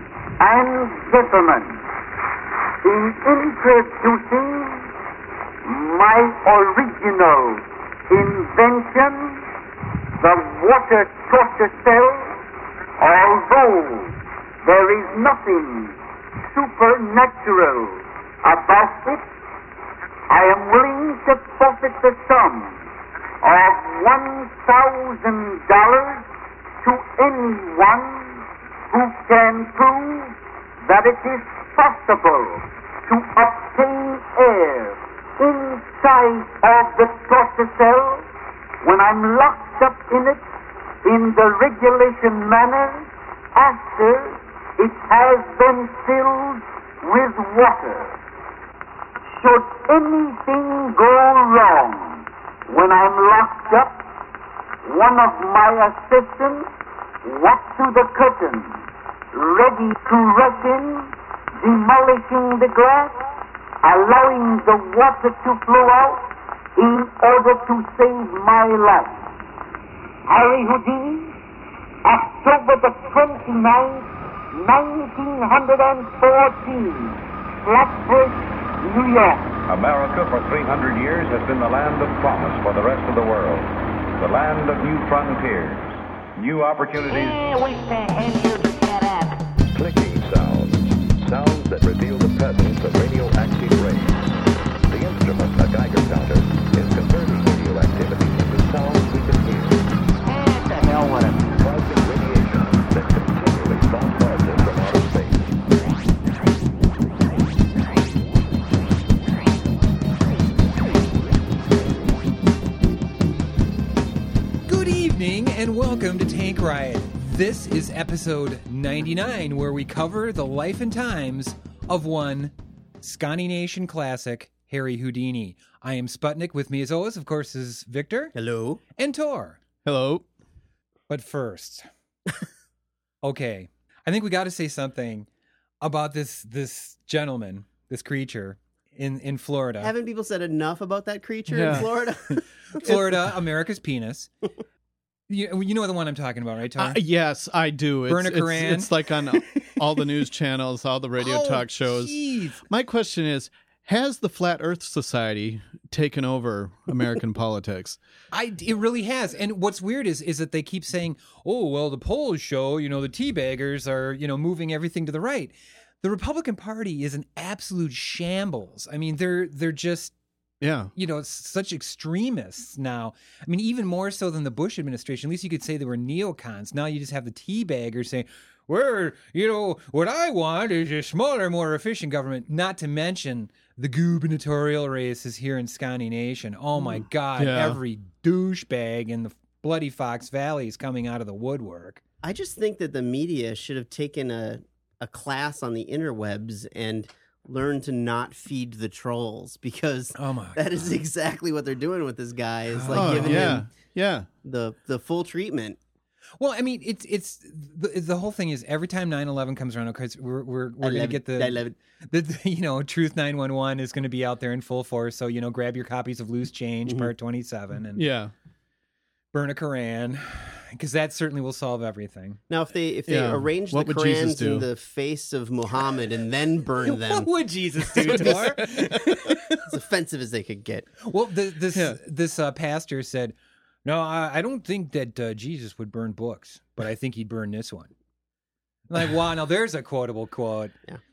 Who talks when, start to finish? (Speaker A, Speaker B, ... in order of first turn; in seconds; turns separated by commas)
Speaker A: 0.4-1.8, Speaker A: 2.8-4.9, Speaker A: 5.7-9.4, Speaker A: 10.2-12.4, Speaker A: 13.0-16.0, Speaker A: 16.5-19.2, Speaker A: 20.3-22.8, Speaker A: 23.4-26.3, Speaker A: 26.8-38.3, Speaker A: 38.8-40.4, Speaker A: 41.0-48.2, Speaker A: 49.4-54.0, Speaker A: 54.8-56.7, Speaker A: 57.2-63.2, Speaker A: 63.8-69.2, Speaker A: 70.3-71.3, Speaker A: 72.0-79.6, Speaker B: 79.7-87.4, Speaker C: 87.1-89.4, Speaker D: 89.7-94.3, Speaker D: 94.8-99.8, Speaker C: 100.2-101.5, Speaker D: 101.5-105.6, Speaker E: 114.6-128.3, Speaker F: 128.3-128.8, Speaker E: 129.0-129.6, Speaker G: 129.8-130.3, Speaker E: 131.1-131.8, Speaker E: 133.2-135.3, Speaker E: 135.8-139.9, Speaker F: 139.8-142.8, Speaker G: 141.5-143.1, Speaker E: 142.8-144.3, Speaker E: 145.3-147.0, Speaker G: 146.8-158.0, Speaker E: 148.1-149.8, Speaker E: 151.2-152.6, Speaker E: 158.3-170.1, Speaker G: 170.6-170.9, Speaker E: 170.9-192.0, Speaker G: 187.4-187.8, Speaker F: 192.2-203.7, Speaker E: 200.2-200.9, Speaker E: 202.7-203.6, Speaker G: 202.9-204.3, Speaker F: 204.4-205.8, Speaker E: 206.4-211.6, Speaker F: 210.8-211.8, Speaker E: 212.1-218.0, Speaker F: 216.9-217.1, Speaker G: 218.0-218.3, Speaker E: 219.3-222.4, Speaker F: 222.5-227.3, Speaker G: 223.1-224.7, Speaker E: 226.9-229.6, Speaker F: 227.9-228.7, Speaker G: 228.1-229.1, Speaker F: 229.7-230.9, Speaker E: 231.0-237.9, Speaker E: 238.9-240.8